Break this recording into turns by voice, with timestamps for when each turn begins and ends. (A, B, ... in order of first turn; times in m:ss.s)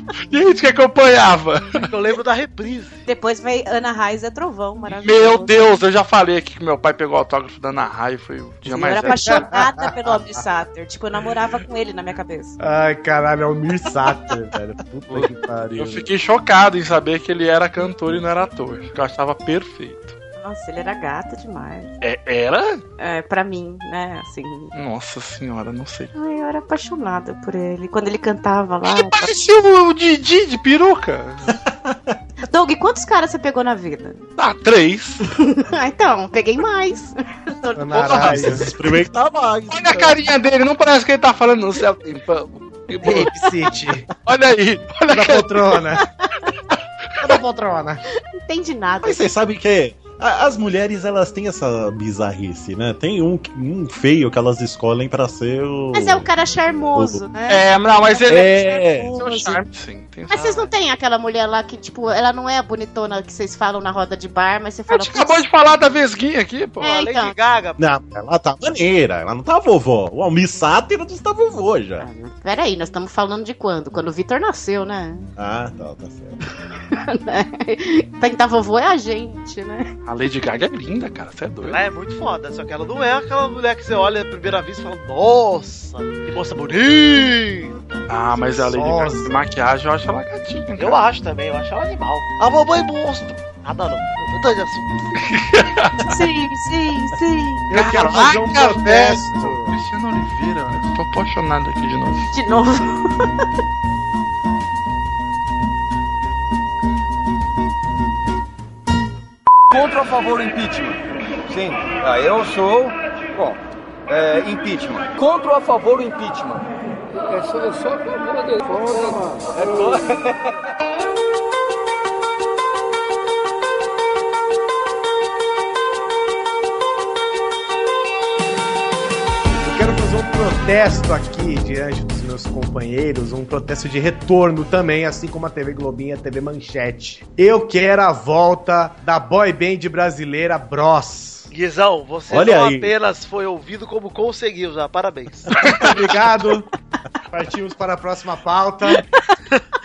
0:00.3-0:01.8 A
0:01.8-0:03.0 B
0:03.0-0:05.8 C
0:04.9-0:09.4 A
0:08.6-0:12.6 C
0:09.2-0:10.3 D
0:12.6-0:16.1 D
0:15.1-0:20.1 A
0:20.4-0:21.9 C
0:22.0-0:22.8 A
0:23.0-0:24.7 C
0:24.7-0:26.1 A
0:26.1-0:29.3 C
0:28.9-0:31.6 A
0:31.6-0:32.2 E
0:32.4-0:34.2 C
0:34.4-0:35.2 A
0:35.2-0:38.6 C
0:37.7-0:38.7 D
0:37.9-0:38.6 A
0:38.1-0:40.2 E
0:39.7-0:43.3 A
0:43.0-0:44.1 D
0:44.2-0:45.5 A
0:45.1-0:46.0 D
0:46.2-0:46.5 C
0:47.2-0:48.0 D
0:48.3-0:49.3 C
0:49.0-0:56.3 E
0:55.9-0:59.6 C
0:56.9-0:57.2 E
0:57.5-1:00.7 A
0:58.3-0:59.2 E
1:00.3-1:05.4 C
1:04.9-1:06.9 A
1:06.8-1:07.3 C
1:06.8-1:07.8 B
1:07.8-1:12.1 E
1:12.0-1:15.3 C
1:15.4-1:16.4 E
1:16.9-1:19.9 C
1:20.0-1:21.8 A
1:21.6-1:28.0 B
1:28.1-1:31.0 A
1:28.6-1:29.4 D
1:30.8-1:35.2 B
1:35.2-1:36.0 A
1:36.1-1:37.7 C
1:37.7-1:39.8 D
1:37.7-1:42.3 A
1:42.3-1:43.3 C
1:49.7-1:56.6 F
1:58.8-2:00.1 F
2:09.6-2:21.5 D
2:21.5-2:25.5 B
2:22.3-2:22.9 E
2:25.6-2:26.7 D
2:27.3-2:29.0 D